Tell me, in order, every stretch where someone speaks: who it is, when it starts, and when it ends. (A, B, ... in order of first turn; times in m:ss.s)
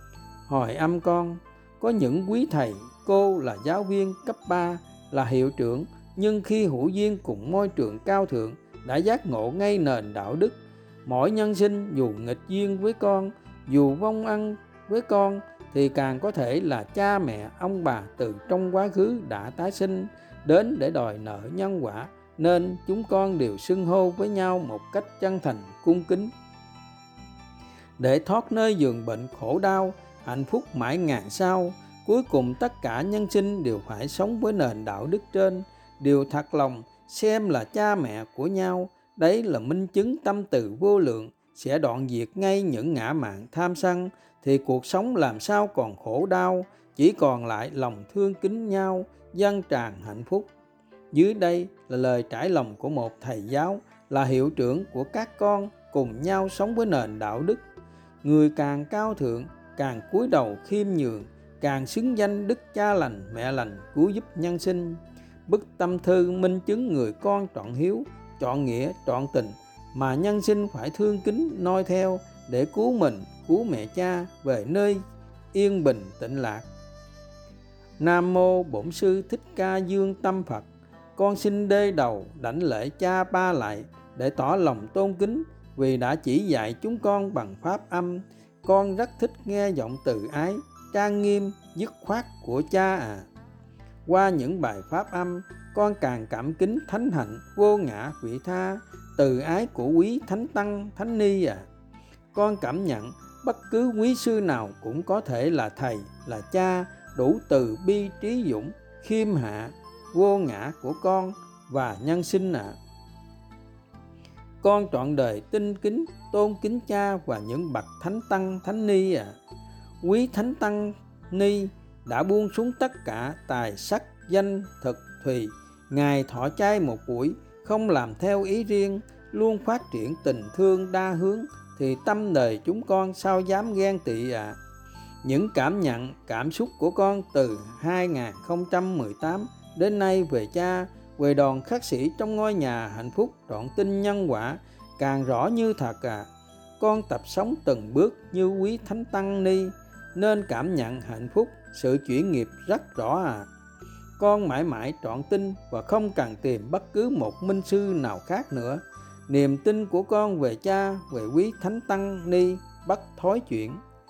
0:00.5-0:26.3 A
0:28.0-0:50.5 A
0:51.1-0:57.6 A
0:58.2-1:15.0 A
1:15.5-1:16.7 A
1:18.0-1:33.3 A
1:34.0-1:41.6 A
1:42.3-1:52.8 A
1:54.6-1:59.4 A
2:00.0-2:14.6 A
2:15.2-2:26.3 A
2:26.8-2:33.5 A
2:34.2-2:43.8 A